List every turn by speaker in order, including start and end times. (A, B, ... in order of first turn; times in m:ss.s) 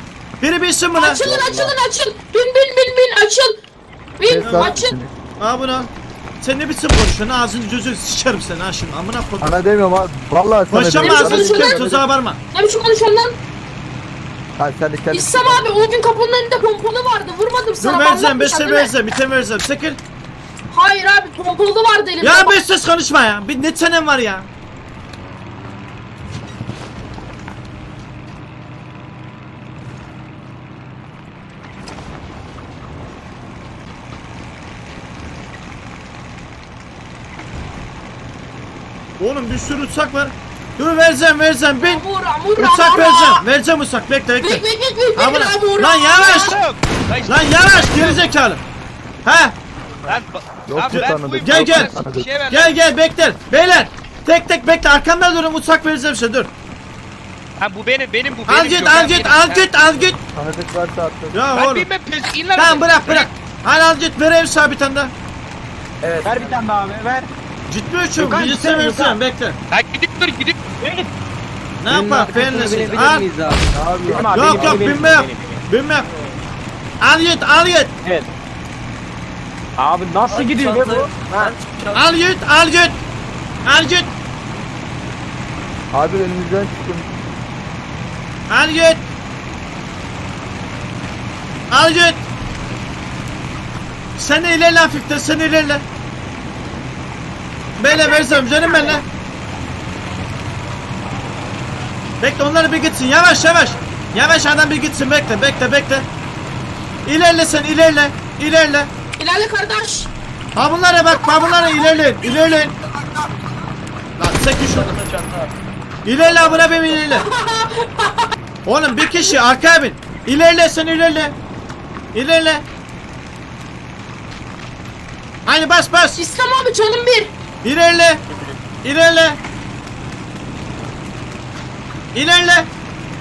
0:00.4-0:01.2 A
0:00.9-0:03.6 B
0:01.2-0:01.7 C
0:04.2-0:05.0 B
0:04.2-0:05.1 C
0:04.4-0:04.8 A
0:05.4-0:05.9 A
0:06.4-0:09.6 A
0:09.4-0:12.1 C
0:10.7-0:12.4 A
0:11.0-0:11.8 B
0:12.5-0:13.4 B
0:14.6-0:15.7 C
0:15.1-0:18.9 B
0:17.8-0:20.0 A
0:20.7-0:22.6 B
0:22.2-0:24.5 A
0:39.2-0:42.0 A
0:41.8-0:43.4 B
0:42.6-0:44.6 A
0:44.4-0:46.6 B
0:45.2-0:46.6 A
0:46.4-0:48.2 D
0:47.2-0:48.6 A
0:49.2-0:49.6 A
0:50.1-0:52.3 C
0:50.1-0:52.7 D
0:50.9-0:52.0 A
0:52.5-0:56.5 A
0:57.6-0:59.7 D
0:58.5-1:00.2 A
1:00.3-1:01.4 C
1:01.3-1:01.9 A
1:01.5-1:03.3 D
1:02.6-1:05.1 A
1:06.2-1:06.5 E
1:07.7-1:09.6 A
1:09.7-1:10.5 D
1:11.8-1:13.2 A
1:11.9-1:13.7 E
1:13.7-1:15.2 C
1:14.1-1:15.6 D
1:14.3-1:16.1 A
1:17.0-1:17.9 A
1:20.3-1:21.9 E
1:21.9-1:23.0 A
1:23.6-1:24.1 A
1:25.9-1:27.1 C
1:28.5-1:29.0 A
1:31.7-1:32.2 A
1:34.2-1:35.8 A
1:37.8-1:39.0 A
1:37.8-1:39.0 B
1:42.2-1:46.1 A
1:47.0-1:48.9 A
1:49.2-1:50.1 B
1:50.5-1:52.7 A
1:51.2-1:52.3 B
1:54.2-1:55.0 A
1:56.0-1:57.2 A
1:57.1-1:58.2 B
1:58.6-2:01.4 A
2:02.1-2:02.6 A
2:05.4-2:06.2 A
2:06.2-2:07.3 B
2:07.6-2:08.2 A
2:08.8-2:09.4 A
2:12.1-2:12.7 A